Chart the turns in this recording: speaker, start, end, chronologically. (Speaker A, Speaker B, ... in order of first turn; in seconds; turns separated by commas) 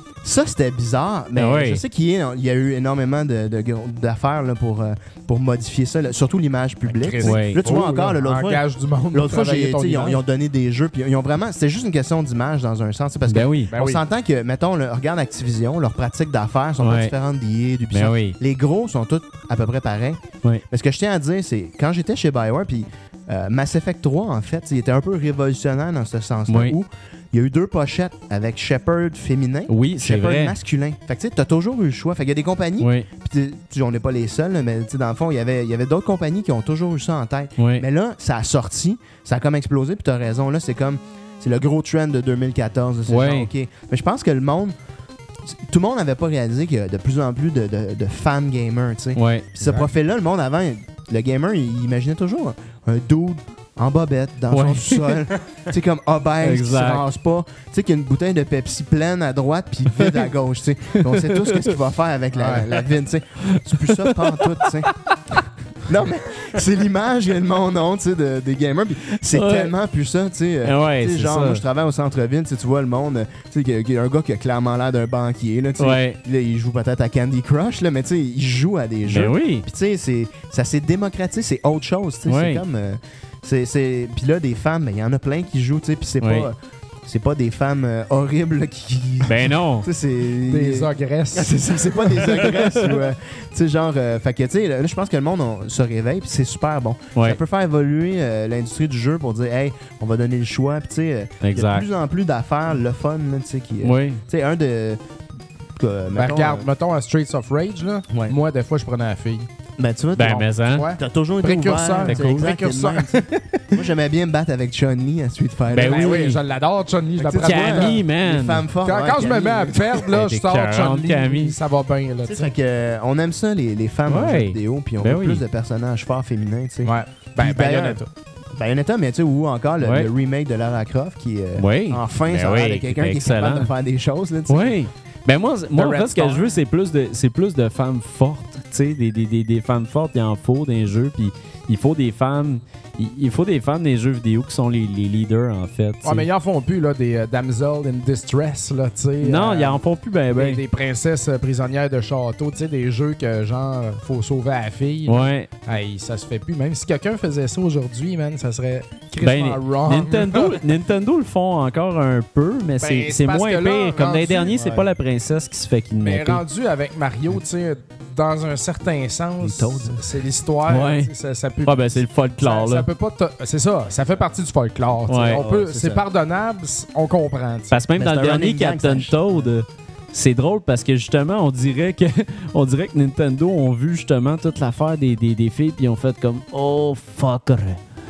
Speaker A: 0.2-44.7, Speaker B: 1.4-1.8, Speaker C: 6.9-10.2, Speaker B: 7.2-7.6, Speaker B: 13.3-13.7, Speaker C: 13.7-14.0, Speaker B: 16.8-17.1, Speaker B: 17.9-18.4, Speaker B: 26.5-26.8, Speaker B: 29.7-30.6, Speaker B: 32.8-33.1, Speaker B: 37.6-37.9, Speaker B: 43.1-43.5, Speaker A: 45.5-64.9, Speaker B: 49.1-49.5, Speaker B: 54.5-55.2, Speaker B: 56.4-57.0, Speaker B: 61.0-61.8, Speaker C: 62.4-62.7, Speaker B: 63.5-64.9, Speaker A: 65.8-105.0, Speaker B: 69.2-69.7, Speaker B: 70.6-71.6, Speaker B: 75.8-76.2, Speaker B: 79.1-79.7, Speaker B: 82.3-82.6, Speaker B: 86.2-86.5, Speaker B: 89.2-89.9, Speaker C: 90.4-92.7, Speaker B: 101.4-101.9, Speaker B: 103.8-104.2, Speaker A: 105.8-106.7, Speaker C: 106.1-109.5, Speaker A: 108.1-108.4, Speaker A: 109.8-116.4, Speaker B: 110.2-110.9, Speaker C: 110.6-113.8, Speaker B: 112.0-112.5, Speaker B: 115.7-116.4, Speaker C: 115.8-118.0, Speaker A: 117.2-120.0, Speaker B: 117.4-118.7, Speaker C: 118.8-122.5, Speaker B: 120.1-121.6, Speaker A: 122.3-134.8, Speaker B: 124.1-125.4, Speaker C: 126.8-128.1, Speaker B: 129.8-130.1, Speaker B: 131.6-133.7, Speaker B: 134.5-146.3, Speaker C: 135.8-136.5, Speaker C: 146.0-160.6, Speaker B: 149.2-150.6, Speaker B: 155.1-155.5, Speaker B: 159.2-166.4, Speaker C: 162.8-164.8, Speaker C: 166.0-177.8, Speaker A: 169.4-170.0, Speaker B: 170.7-171.1, Speaker B: 171.6-172.9, Speaker B: 175.1-175.4, Speaker A: 175.3-176.1, Speaker B: 177.7-187.8, Speaker A: 178.0-179.5